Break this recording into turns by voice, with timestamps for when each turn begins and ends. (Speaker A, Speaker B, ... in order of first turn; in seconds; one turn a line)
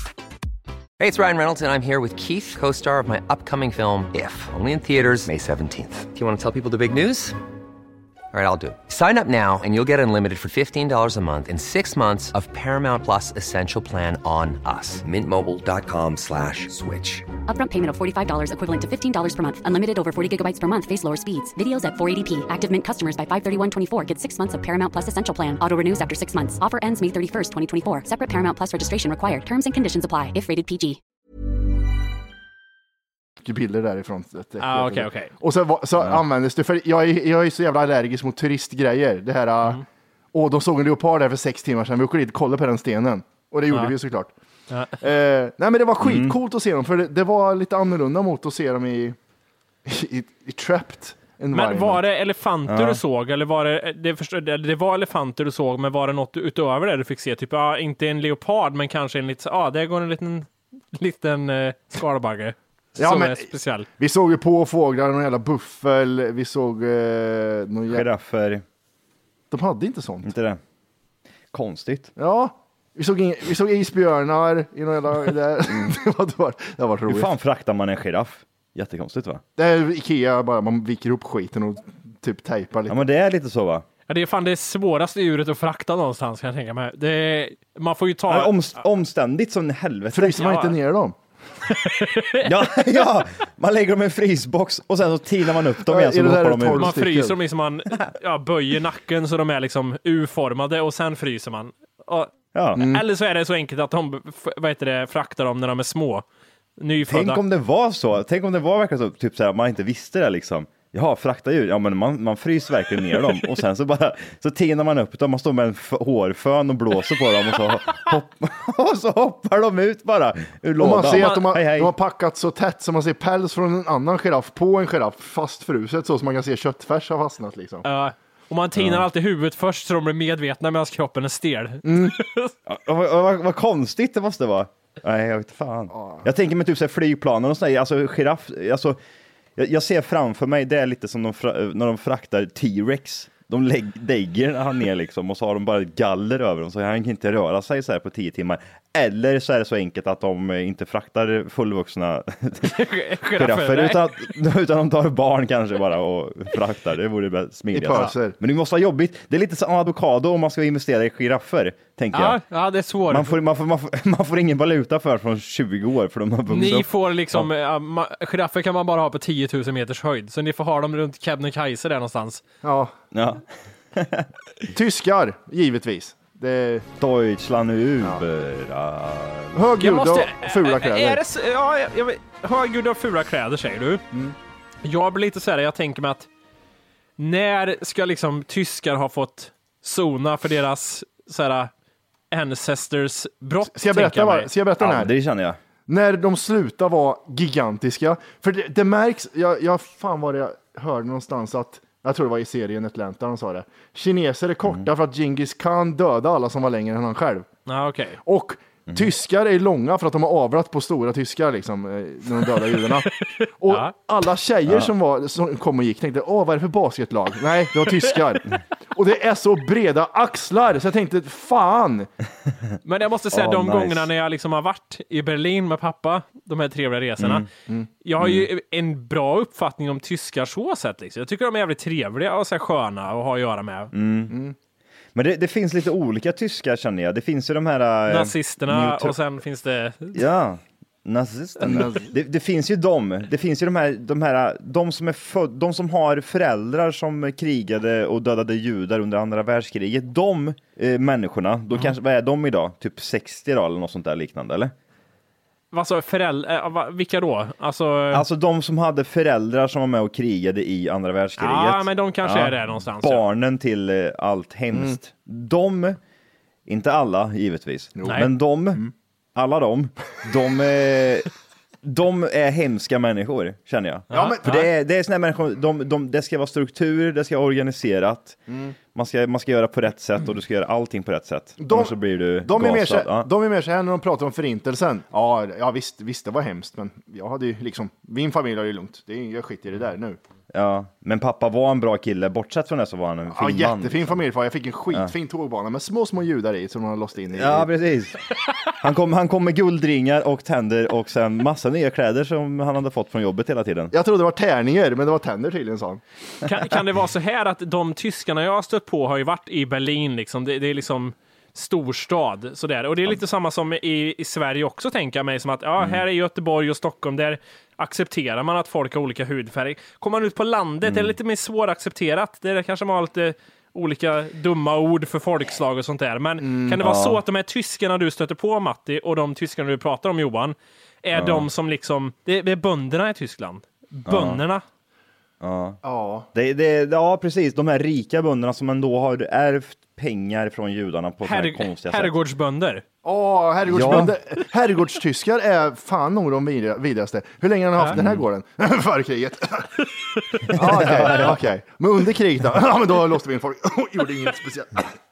Speaker A: 1.0-7.4
Speaker A: 8.3-17.3
Speaker B: 17.4-31.0
Speaker C: 33.4-44.3
Speaker D: 34.6-35.3
Speaker D: 44.7-45.0
Speaker C: 45.0-49.2
Speaker E: 46.0-46.4
Speaker C: 49.8-52.0
Speaker D: 51.5-63.9
Speaker E: 52.7-53.0
Speaker C: 63.0-68.0
Speaker E: 67.9-68.6
Speaker C: 69.5-70.3
Speaker E: 70.2-70.6
Speaker E: 71.5-72.1
Speaker C: 72.2-77.3
Speaker E: 77.1-79.4
Speaker C: 79.5-83.0
Speaker E: 82.9-83.8
Speaker D: 84.1-88.5
Speaker E: 88.3-90.6
Speaker C: 90.1-91.2
Speaker D: 90.4-90.7
Speaker D: 91.7-92.5
Speaker E: 92.4-96.9
Speaker C: 95.8-97.4
Speaker D: 96.8-106.2
Speaker E: 102.5-102.8
Speaker C: 102.8-103.0
Speaker D: 106.8-107.4
Speaker E: 107.1-121.9
Speaker C: 120.8-127.8
Speaker D: 121.1-121.4
Speaker D: 127.8-132.5
Speaker E: 128.7-129.0
Speaker C: 131.8-132.2
Speaker E: 132.7-139.0
Speaker C: 135.9-136.2
Speaker E: 139.6-162.4
Speaker D: 152.6-154.1
Speaker C: 157.7-158.3
Speaker D: 162.1-163.3
Speaker E: 163.1-167.5
Speaker D: 166.5-172.4
Speaker C: 172.6-172.9
Speaker E: 173.1-174.3
Speaker C: 174.7-176.9
Speaker E: 177.0-179.6
Speaker C: 179.5-181.2
Speaker D: 179.8-184.0
Speaker D: 184.8-186.3
Speaker D: 187.2-191.7
Speaker D: 192.3-194.5
Speaker C: 193.7-195.1
Speaker E: 194.8-195.6
Speaker C: 195.9-207.5
Speaker D: 207.7-208.2
Speaker C: 208.2-213.1
Speaker D: 213.2-213.9
Speaker C: 213.6-222.1
Speaker D: 222.8-227.4
Speaker E: 223.3-224.1
Speaker E: 227.2-227.4
Speaker D: 228.0-233.9
Speaker E: 228.2-228.4
Speaker E: 233.9-234.3
Speaker C: 234.3-234.6
Speaker E: 235.1-239.2
Speaker D: 238.1-240.2
Speaker E: 240.1-254.7
Speaker C: 241.6-242.0
Speaker D: 255.7-258.2
Speaker E: 258.1-266.0
Speaker D: 261.4-263.2
Speaker E: 266.7-271.3
Speaker C: 268.0-268.9
Speaker E: 271.8-278.4
Speaker D: 274.1-274.6
Speaker C: 274.1-274.4
Speaker C: 278.5-278.7
Speaker E: 278.9-283.3
Speaker C: 281.6-290.2
Speaker E: 290.5-294.2
Speaker C: 293.3-297.7
Speaker E: 297.3-298.2
Speaker E: 298.8-303.9
Speaker C: 303.9-306.0
Speaker D: 306.4-334.6
Speaker E: 320.8-321.1
Speaker C: 326.4-326.8
Speaker E: 326.8-327.2
Speaker E: 331.1-331.5
Speaker E: 334.1-334.4
Speaker E: 335.4-335.8
Speaker C: 335.8-336.3
Speaker E: 336.3-342.1
Speaker D: 341.2-342.8
Speaker C: 343.0-349.7
Speaker E: 343.7-344.1
Speaker E: 347.9-348.2
Speaker E: 350.5-351.4
Speaker C: 350.5-354.9